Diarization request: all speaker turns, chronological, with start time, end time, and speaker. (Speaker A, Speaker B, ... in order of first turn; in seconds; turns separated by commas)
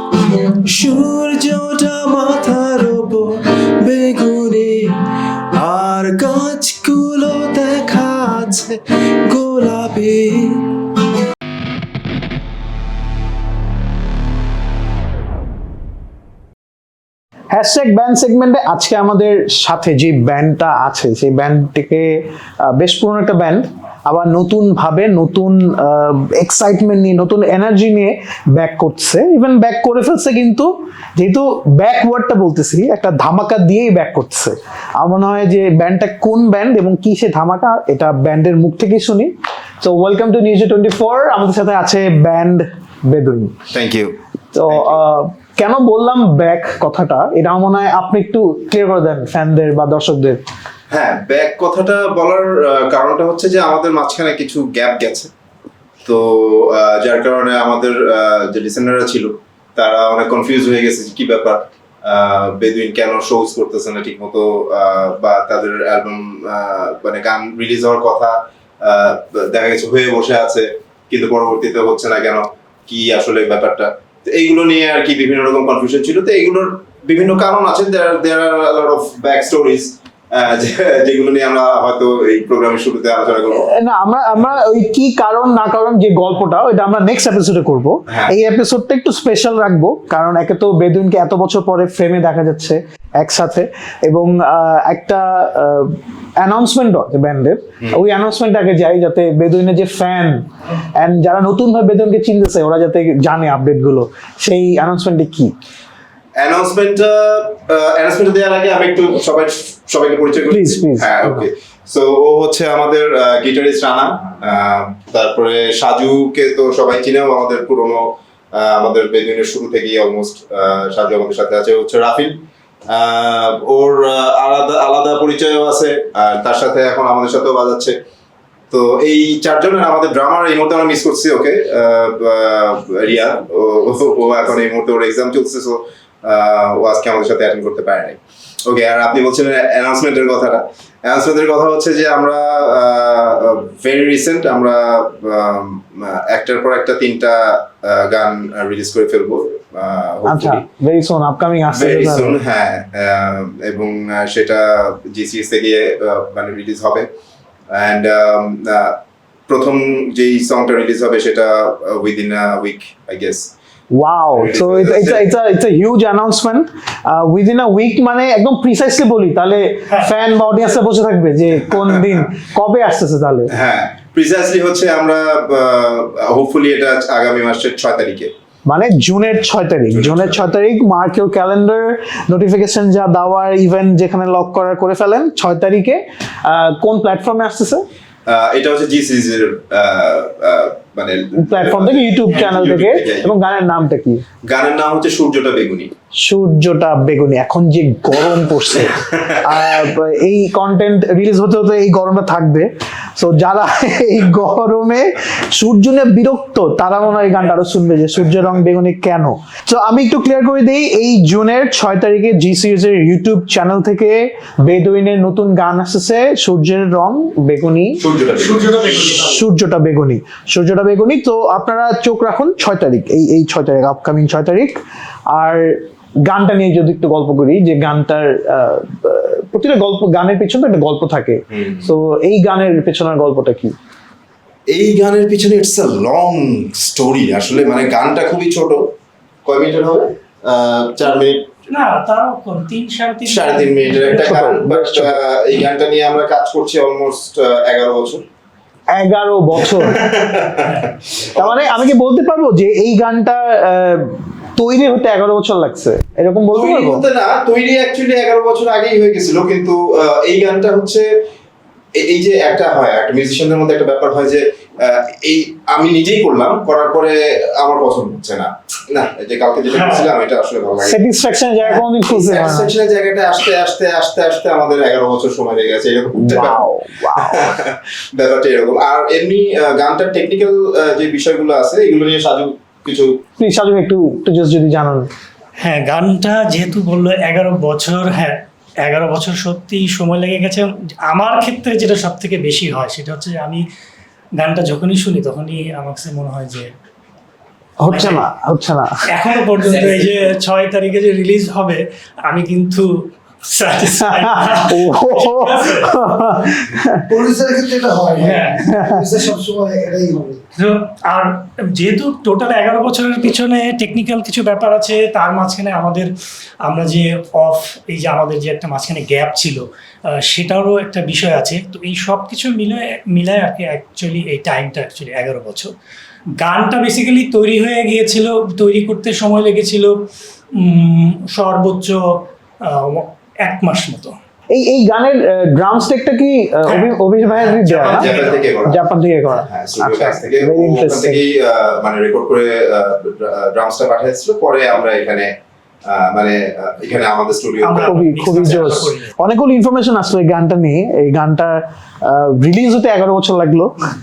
Speaker A: 0.5-5.0, Speaker A: 5.5-10.7, Speaker B: 17.5-39.3, Speaker B: 39.8-43.5, Speaker C: 43.7-44.1, Speaker B: 44.5-50.4, Speaker C: 44.7-45.0, Speaker C: 50.9-55.3, Speaker C: 56.0-83.7, Speaker B: 83.5-100.5, Speaker C: 88.1-88.3, Speaker B: 101.0-105.5, Speaker C: 106.4-122.4, Speaker B: 110.5-111.5, Speaker C: 122.9-128.0, Speaker C: 128.7-150.7, Speaker B: 150.3-152.4, Speaker C: 151.7-157.1, Speaker C: 157.7-159.0, Speaker C: 159.5-163.5, Speaker B: 164.0-173.5, Speaker C: 164.4-165.3, Speaker C: 173.5-178.3, Speaker B: 178.7-187.8, Speaker C: 179.9-180.5, Speaker C: 188.3-193.6, Speaker B: 191.4-194.2, Speaker C: 194.5-195.9, Speaker B: 196.2-218.0, Speaker C: 218.0-218.9, Speaker D: 218.6-219.2, Speaker B: 219.1-224.8, Speaker B: 225.3-233.8, Speaker C: 231.5-231.9, Speaker C: 234.7-238.9, Speaker C: 239.4-241.5, Speaker E: 241.7-244.2, Speaker C: 243.3-248.2, Speaker B: 244.1-245.2, Speaker B: 248.9-250.1, Speaker C: 249.7-251.9, Speaker B: 251.3-257.1, Speaker C: 256.5-261.1, Speaker C: 262.0-271.0, Speaker E: 269.8-270.1, Speaker B: 270.8-272.7, Speaker C: 271.7-283.1, Speaker B: 276.1-277.6, Speaker B: 283.4-285.1, Speaker E: 285.6-293.6, Speaker E: 294.4-296.7, Speaker B: 297.8-299.2, Speaker E: 297.9-298.2, Speaker E: 299.1-305.9, Speaker B: 304.1-307.1, Speaker D: 307.1-310.4, Speaker E: 308.2-308.6, Speaker B: 308.8-309.1, Speaker E: 310.6-316.1, Speaker E: 316.6-325.7, Speaker E: 326.4-329.9, Speaker E: 330.6-332.1, Speaker E: 332.6-334.2, Speaker B: 334.5-338.1, Speaker E: 336.7-336.9, Speaker E: 337.5-338.4, Speaker C: 337.9-345.3, Speaker B: 338.7-341.2, Speaker C: 345.9-348.0, Speaker E: 347.6-349.1, Speaker B: 347.8-353.9